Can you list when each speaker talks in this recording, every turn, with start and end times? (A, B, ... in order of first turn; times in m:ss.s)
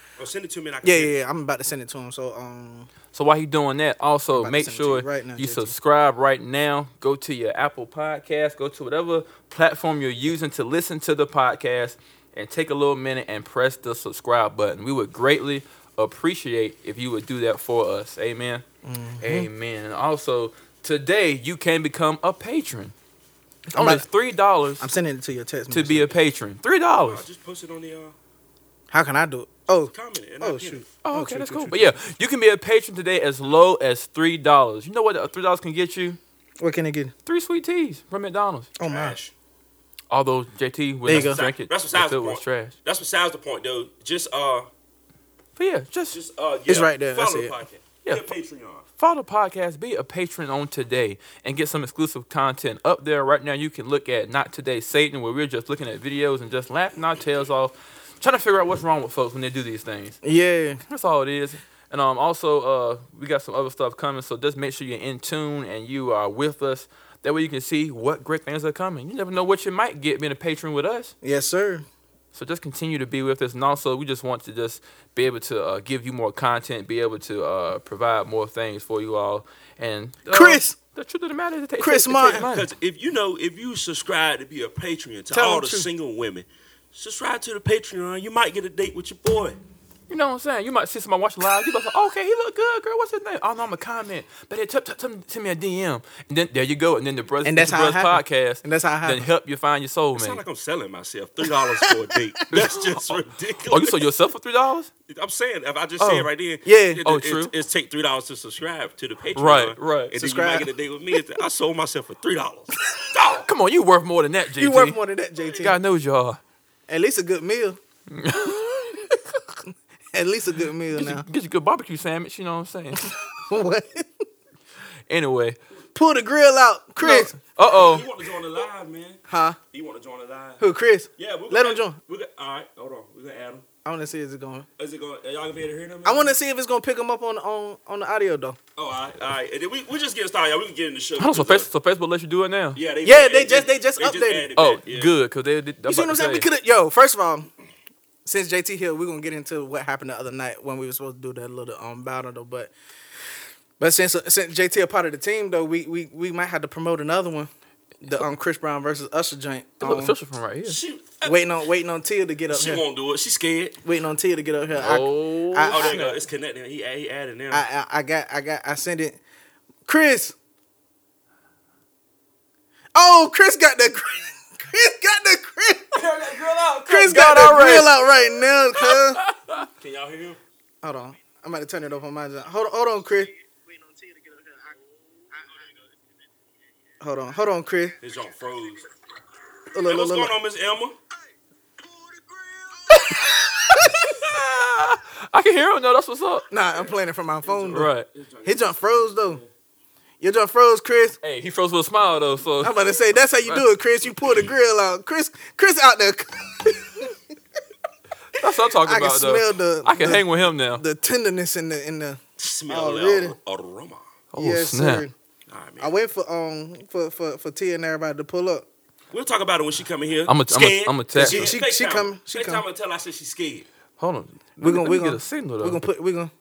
0:00.2-0:01.1 A
0:00.8-0:02.9 B
0:03.1-0:18.6 C
0:04.3-0:05.7 B
0:18.8-0:19.5 B
0:19.2-0:22.9 C
0:23.7-0:24.0 B
0:23.7-0:24.9 C
0:24.8-0:26.1 B
0:25.7-0:27.2 C
0:27.0-0:28.1 A
0:28.9-0:32.0 B
0:29.9-0:30.8 A
0:31.0-0:36.2 C
0:36.6-0:37.1 B
0:37.2-0:38.7 C
0:38.8-0:39.2 B
0:38.8-0:39.3 A
0:40.1-0:42.7 C
0:41.0-0:41.4 B
0:41.1-0:44.7 A
0:45.6-0:46.2 C
0:46.1-0:48.8 A
0:46.7-0:47.5 B
0:49.0-1:00.2 C
1:00.2-1:00.8 B
1:00.8-1:11.1 C
1:11.2-1:11.8 B
1:12.3-1:22.7 C
1:20.3-1:20.8 B
1:21.8-1:22.4 B
1:22.2-1:29.6 A
1:25.3-1:25.9 B
1:30.1-1:40.4 C
1:37.4-1:39.3 B
1:40.1-1:44.0 A
1:43.7-1:44.9 C
1:45.1-1:53.5 A
1:46.0-1:46.3 C
1:46.6-1:47.0 B
1:47.0-1:47.5 C
1:49.4-1:50.1 C
1:50.1-1:50.7 B
1:53.4-1:55.0 C
1:54.6-1:55.8 B
1:55.6-1:56.4 C
1:56.9-1:57.8 B
1:58.1-1:58.9 C
1:59.1-2:01.3 B
2:00.9-2:03.1 C
2:03.0-2:04.2 B
2:05.1-2:05.6 C
2:05.9-2:07.4 B
2:07.0-2:08.0 C
2:07.7-2:09.2 A
2:09.3-2:09.6 B
2:09.7-2:10.6 A
2:10.6-2:12.0 B
2:11.2-2:13.6 A
2:13.8-2:14.7 B
2:14.8-2:16.3 A
2:16.0-2:18.6 B
2:18.8-2:21.7 A
2:21.2-2:22.8 C
2:22.7-2:25.1 A
2:23.0-2:24.5 B
2:24.6-2:26.5 C
2:25.9-2:27.5 B
2:28.2-2:32.7 B
2:33.8-2:37.5 B
2:38.0-2:40.2 B
2:39.8-2:40.8 C
2:40.6-2:41.4 A
2:41.2-2:42.8 B
2:42.5-2:43.8 A
2:43.8-2:46.0 B
2:44.8-2:46.2 C
2:45.7-2:47.6 A
2:47.5-2:49.2 B
2:49.8-2:50.3 B
2:52.9-2:56.0 B
2:56.0-2:58.0 C
2:56.9-2:59.2 B
2:58.8-2:59.7 C
2:59.8-3:00.4 A
3:00.8-3:04.7 B
3:07.0-3:08.0 B
3:08.0-3:08.9 A
3:09.7-3:10.3 B
3:09.8-3:11.0 A
3:11.9-3:14.1 B
3:12.9-3:16.4 C
3:16.5-3:17.9 B
3:17.4-3:19.5 A
3:17.7-3:18.1 C
3:18.4-3:19.4 B
3:20.2-3:21.2 B
3:21.2-3:22.7 C
3:22.6-3:27.2 B
3:28.4-3:30.8 C
3:28.8-3:33.4 B
3:32.4-3:34.0 A
3:34.3-3:35.0 C
3:34.4-3:35.1 B
3:35.5-3:35.9 A
3:35.8-3:38.7 B
3:39.1-3:43.6 A
3:40.3-3:41.5 C
3:41.1-3:42.6 B
3:44.0-3:45.8 C
3:44.6-3:46.3 B